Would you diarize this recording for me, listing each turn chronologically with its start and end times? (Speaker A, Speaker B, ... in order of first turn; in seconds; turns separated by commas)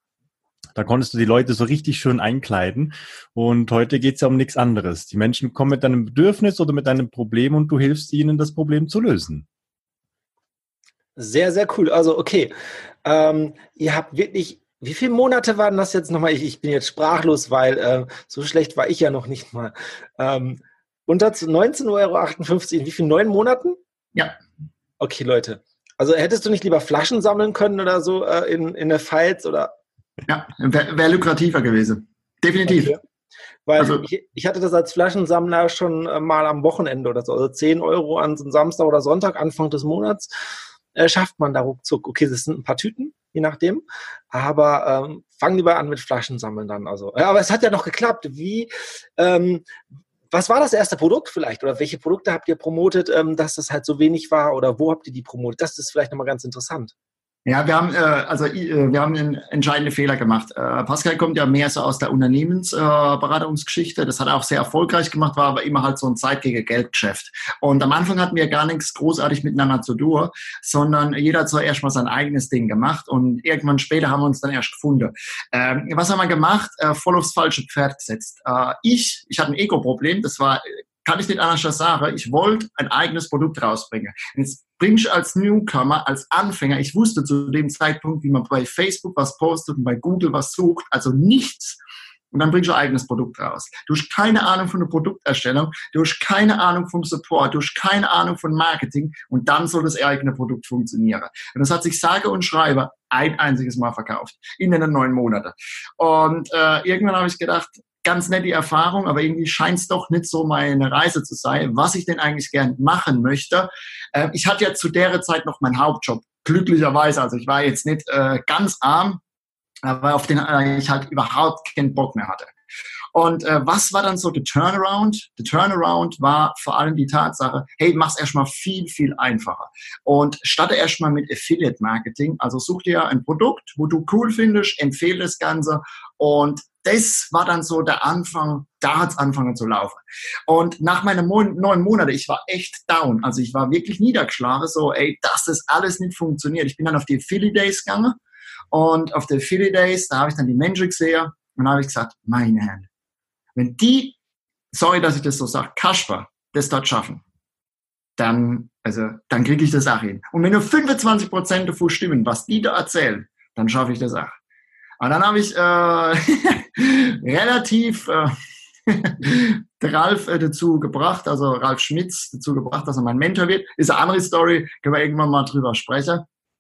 Speaker A: 0.8-9.4, Speaker B: 11.2-12.5, Speaker B: 13.1-23.8, Speaker B: 25.0-29.7, Speaker C: 30.3-33.0, Speaker B: 32.7-33.0, Speaker B: 33.7-40.3, Speaker C: 33.8-34.0, Speaker B: 41.0-49.7, Speaker B: 50.3-56.9, Speaker C: 57.5-91.8, Speaker C: 92.3-119.2, Speaker C: 119.8-122.5, Speaker C: 123.1-148.2, Speaker C: 148.7-152.9, Speaker C: 153.6-154.2, Speaker C: 154.7-157.2, Speaker C: 158.2-164.4, Speaker C: 165.0-168.3, Speaker C: 168.9-176.3